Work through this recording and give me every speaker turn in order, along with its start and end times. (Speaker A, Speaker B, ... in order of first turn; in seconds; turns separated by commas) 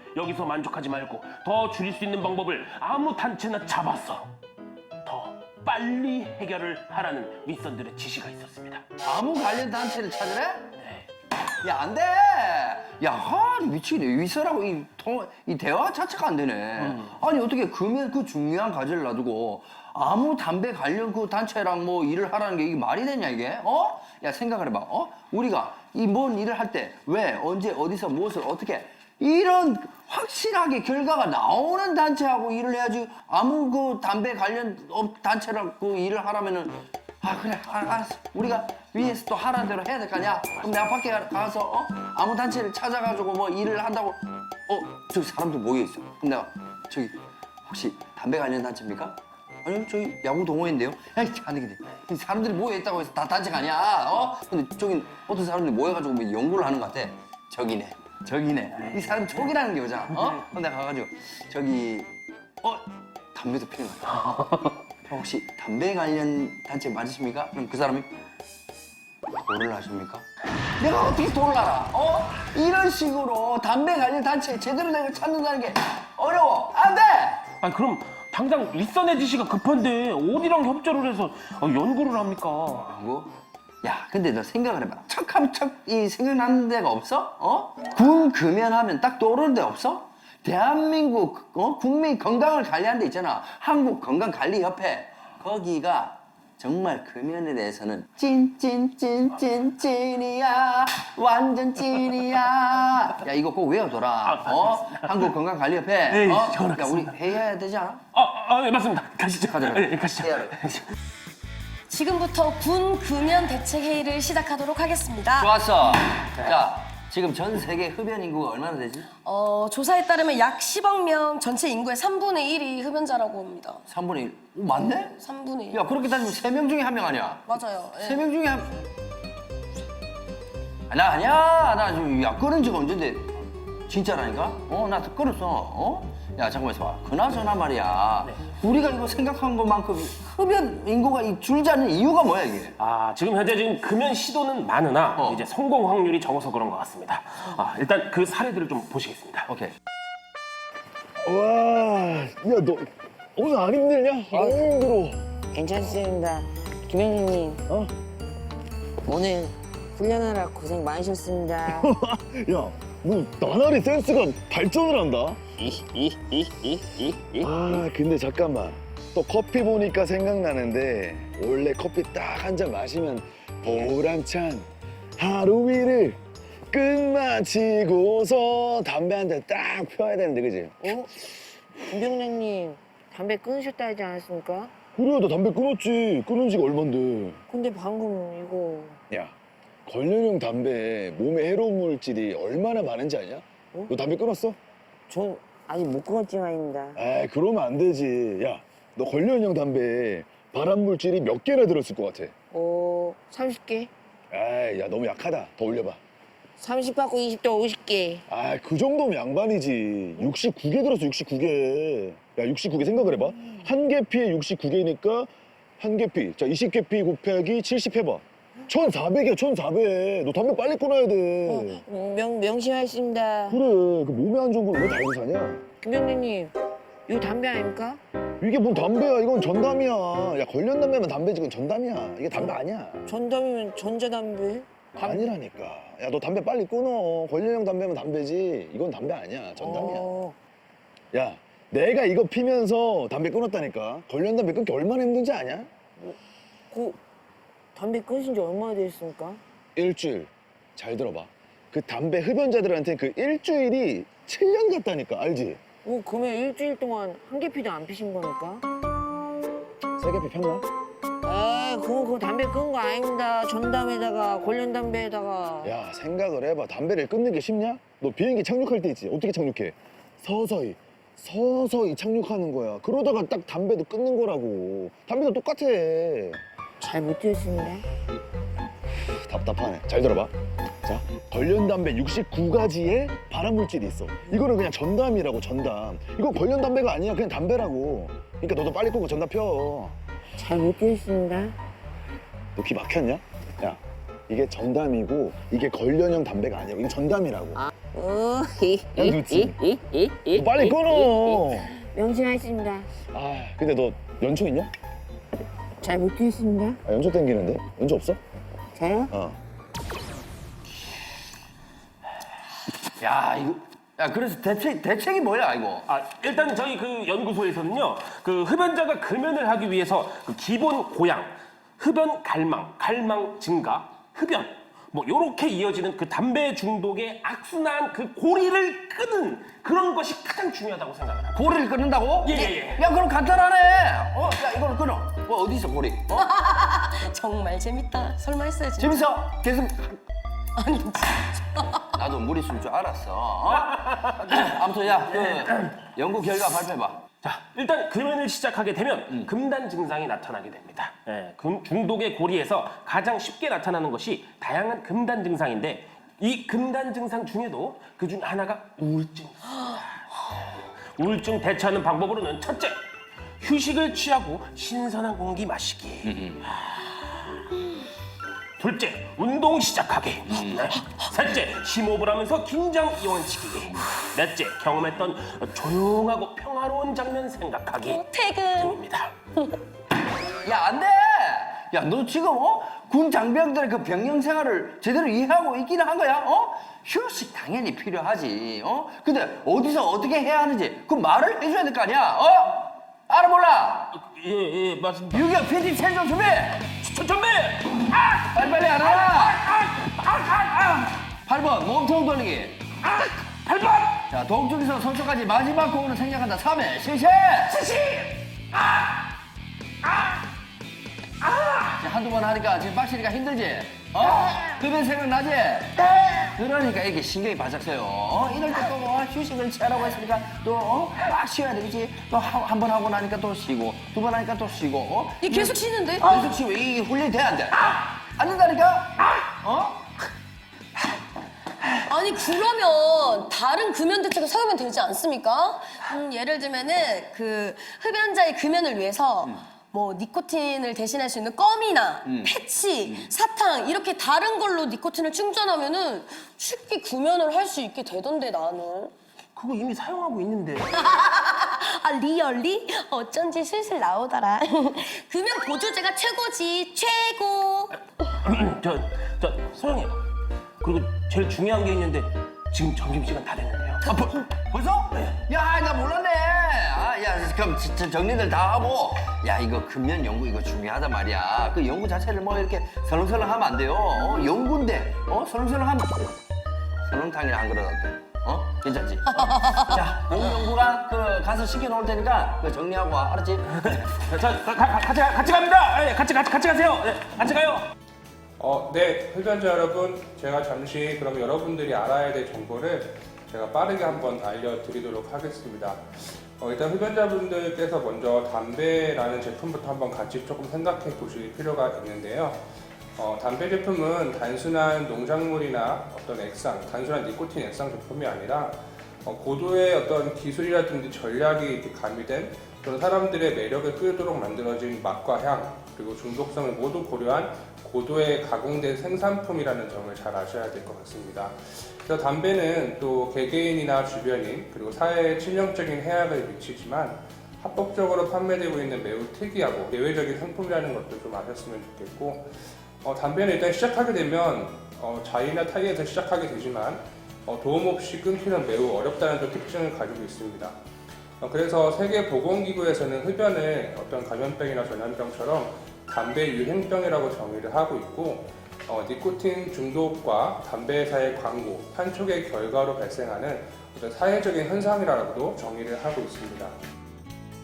Speaker A: 0.1-4.3, Speaker A: 5.0-8.8, Speaker B: 9.0-10.7, Speaker A: 10.8-11.0, Speaker B: 11.6-62.1, Speaker A: 16.8-17.1, Speaker B: 62.6-64.4, Speaker B: 65.0-68.1, Speaker B: 69.3-70.2, Speaker B: 70.8-77.5, Speaker A: 77.5-82.9, Speaker B: 82.9-108.0, Speaker A: 104.2-105.3, Speaker A: 106.1-107.2, Speaker A: 108.1-110.8, Speaker B: 109.4-110.5, Speaker C: 111.9-115.5, Speaker B: 115.3-119.1, Speaker C: 119.2-123.8, Speaker B: 123.9-125.2, Speaker C: 125.2-125.8, Speaker B: 125.7-128.8, Speaker C: 127.5-128.2, Speaker B: 130.9-133.3, Speaker B: 133.9-142.7, Speaker A: 142.8-149.5, Speaker B: 145.2-145.4, Speaker B: 149.5-149.7, Speaker D: 151.2-155.2, Speaker E: 154.3-154.6, Speaker E: 155.5-157.6, Speaker E: 159.0-161.9, Speaker D: 161.7-165.4, Speaker D: 167.3-176.2, Speaker D: 176.7-180.9, Speaker E: 180.8-184.7, Speaker D: 184.9-187.4, Speaker E: 187.5-189.0, Speaker D: 189.1-189.3, Speaker D: 189.8-194.6, Speaker E: 195.1-197.0, Speaker D: 196.9-202.3, Speaker E: 202.5-203.9, Speaker D: 204.3-206.0, Speaker E: 206.6-208.2, Speaker D: 208.3-221.8, Speaker E: 221.4-223.6, Speaker D: 223.5-225.7, Speaker E: 225.8-226.5, Speaker E: 227.1-228.0, Speaker D: 228.4-233.0, Speaker E: 233.1-235.3, Speaker D: 234.9-240.1, Speaker E: 239.6-240.3, Speaker D: 241.1-245.8, Speaker E: 246.7-247.0, Speaker E: 247.7-249.4, Speaker D: 249.8-255.6, Speaker E: 255.8-258.6, Speaker D: 260.0-260.6, Speaker E: 261.2-265.7, Speaker D: 265.6-276.4, Speaker E: 276.8-277.8, Speaker D: 279.2-280.3, Speaker D: 280.8-290.0, Speaker E: 290.4-291.5, Speaker D: 292.6-297.6, Speaker E: 297.9-300.8, Speaker D: 298.9-299.6, Speaker D: 300.3-301.7, Speaker E: 301.7-302.9, Speaker D: 303.1-304.7, Speaker E: 305.8-306.8, Speaker D: 306.9-308.2, Speaker E: 308.7-309.1, Speaker D: 309.1-309.4, Speaker B: 313.0-315.8, Speaker A: 315.9-331.6, Speaker B: 331.3-336.3, Speaker A: 332.2-332.9, Speaker C: 336.1-339.1, Speaker B: 338.8-340.0, Speaker C: 340.6-341.8, Speaker B: 341.9-347.1, Speaker A: 343.5-344.4, Speaker A: 345.1-345.7, Speaker A: 347.2-362.8, Speaker A: 363.4-367.4, Speaker B: 366.0-366.4, Speaker A: 368.6-379.1, Speaker B: 370.3-370.7, Speaker C: 377.9-378.8, Speaker B: 380.4-393.9, Speaker A: 393.9-395.3, Speaker B: 395.1-396.7, Speaker A: 396.7-400.9, Speaker B: 398.3-399.4, Speaker B: 401.1-402.6, Speaker A: 402.8-404.1, Speaker B: 404.1-407.6, Speaker A: 407.5-408.7, Speaker A: 411.2-411.6, Speaker B: 411.8-429.9, Speaker C: 425.2-426.4, Speaker C: 431.9-448.9, Speaker B: 442.0-443.1, Speaker A: 449.4-450.7, Speaker C: 450.7-457.7, Speaker A: 458.2-460.0, Speaker A: 460.6-463.8, Speaker B: 463.8-476.1, Speaker A: 464.9-465.2, Speaker B: 476.9-483.9, Speaker A: 483.6-487.6, Speaker F: 488.4-502.4, Speaker F: 503.0-540.5, Speaker F: 541.2-556.5